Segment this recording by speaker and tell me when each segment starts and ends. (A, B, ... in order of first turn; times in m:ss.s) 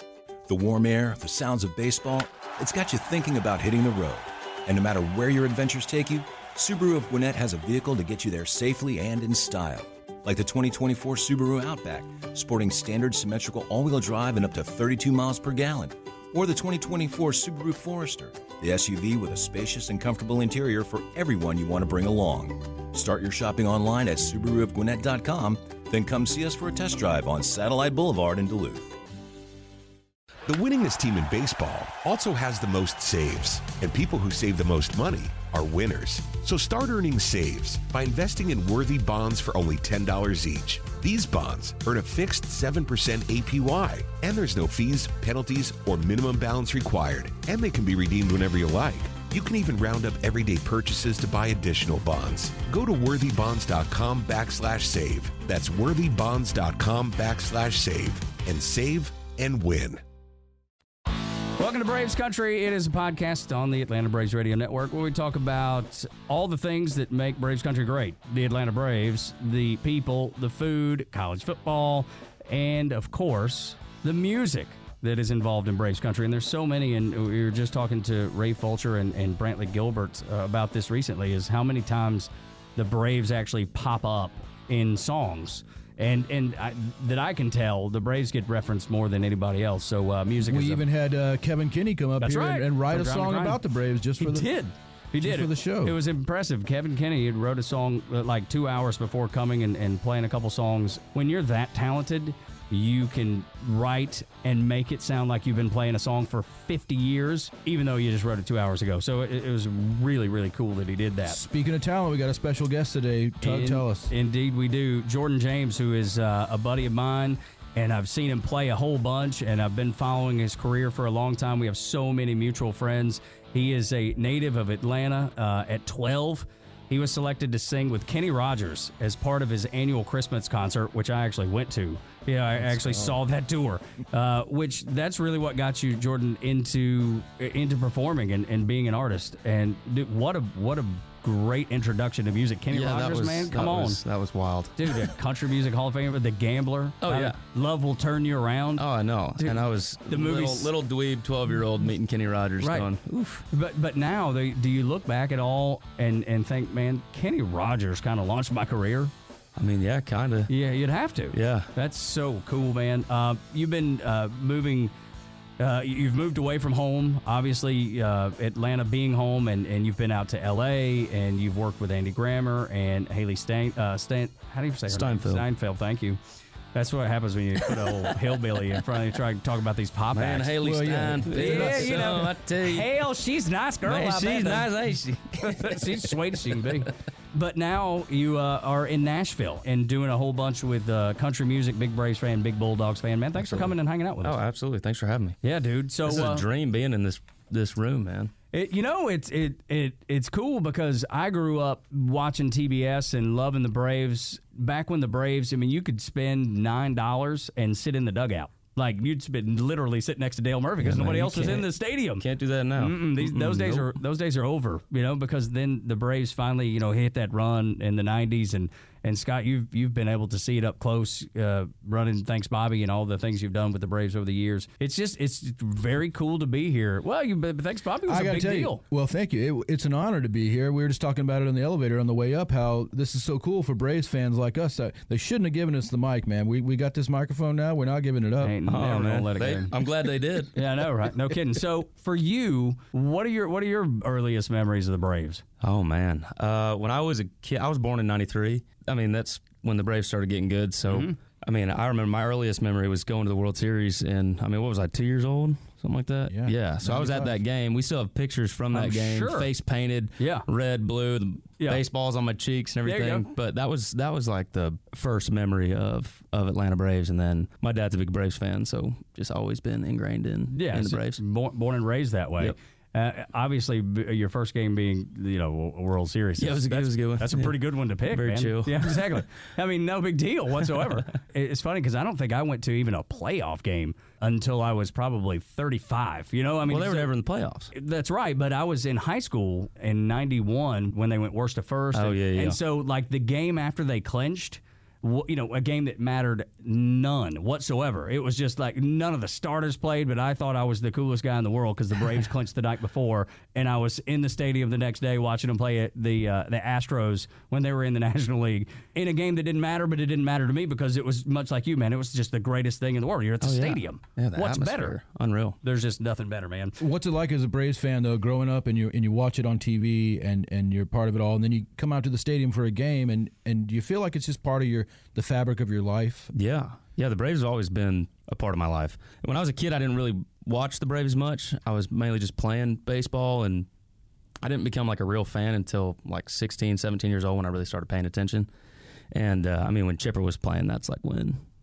0:00.5-0:29.0 A
0:30.5-1:00.0 B
1:01.5-1:30.8 C
1:30.4-1:34.5 D
1:32.2-1:33.6 C
1:34.2-1:51.4 C
1:35.2-1:36.0 D
1:51.2-1:54.1 D
1:53.4-2:24.0 C
2:22.7-2:25.1 E
2:24.8-2:28.8 C
2:27.0-2:27.4 E
2:28.8-2:33.4 E
2:29.4-2:30.7 C
2:32.6-2:32.9 C
2:33.5-2:39.1 C
2:39.6-2:40.5 E
2:40.5-2:44.9 C
2:41.3-2:41.7 E
2:45.6-2:56.2 C
2:54.9-2:55.5 E
2:56.7-3:00.5 C
3:00.1-3:02.9 E
3:00.6-3:02.0 D
3:01.2-3:04.7 C
3:03.8-3:06.6 E
3:05.4-3:14.4 C
3:13.4-3:15.4 E
3:15.4-3:16.4 C
3:16.0-3:18.3 E
3:18.5-3:32.2 C
3:30.8-3:34.0 E
3:32.8-3:48.8 C
3:48.1-3:58.6 D
3:58.4-3:59.7 C
3:58.7-4:00.6 E
4:00.5-4:05.4 C
4:05.6-4:31.2 E
4:10.9-4:11.2 C
4:16.3-4:17.4 D
4:18.7-4:19.5 C
4:20.2-4:20.4 C
4:22.8-4:23.2 C
4:30.5-4:47.1 C
4:36.4-4:39.1 E
4:46.7-4:47.7 E
4:47.7-5:15.0 C
4:51.9-4:52.6 E
5:13.4-5:15.6 E
5:15.6-5:16.8 C
5:16.8-5:26.3 D
5:26.3-5:33.7 E
5:34.4-5:38.5 E
5:39.1-5:41.4 E